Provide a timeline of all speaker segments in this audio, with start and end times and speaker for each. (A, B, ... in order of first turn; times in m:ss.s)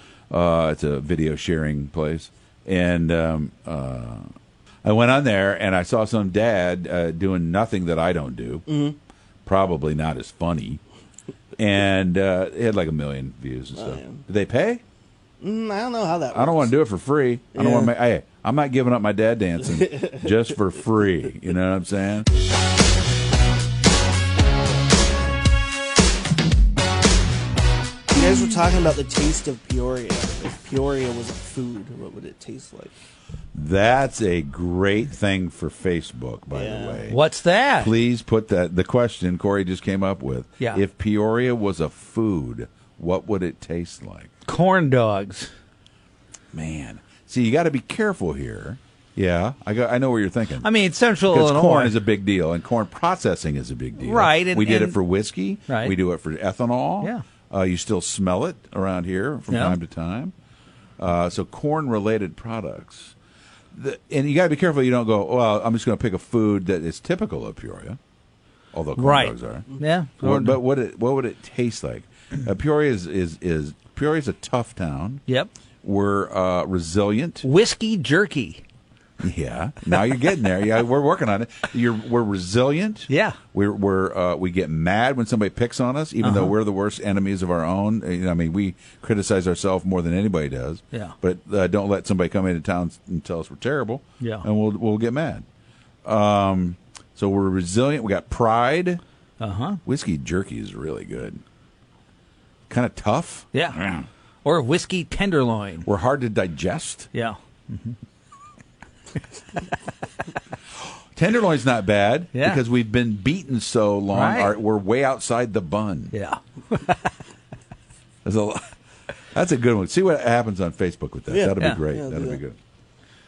0:00.3-0:04.3 A
0:04.8-0:08.7 A
0:08.7-0:09.0 B
0:09.4-0:10.8 A
0:11.6-0:14.8 A
0:13.8-0:14.2 B
0:15.4-0:16.7 B
0:16.3-0:22.3 A
0:17.5-0:17.9 B
0:19.8-0:20.2 B
0:28.1-0:32.9 B
0:33.5-0:37.2 A
0:36.5-0:37.0 B
0:37.1-0:37.9 C
0:37.8-0:44.3 A
0:44.5-0:45.5 C
0:46.5-0:50.7 A
0:50.6-0:52.0 C
0:51.3-1:00.3 A
0:54.0-0:55.0 C
0:55.7-0:55.9 C
0:59.5-0:59.8 C
1:01.0-1:03.2 A
1:03.7-1:08.0 A
1:08.7-1:09.7 A
1:09.0-1:10.6 C
1:10.2-1:15.2 A
1:15.8-1:17.5 A
1:17.4-1:18.6 C
1:19.2-1:35.4 A
1:23.1-1:23.4 C
1:26.2-1:26.5 C
1:34.2-1:34.5 C
1:36.0-1:39.0 A
1:39.4-1:39.8 C
1:39.9-1:41.4 A
1:42.7-1:44.1 A
1:44.4-1:45.9 C
1:45.8-1:47.1 A
1:47.1-1:48.0 C
1:51.1-1:56.2 A
1:52.3-1:52.6 C
1:54.1-1:54.6 C
1:56.1-1:57.1 C
1:58.2-1:58.7 A
1:59.3-2:02.6 A
2:01.3-2:02.4 B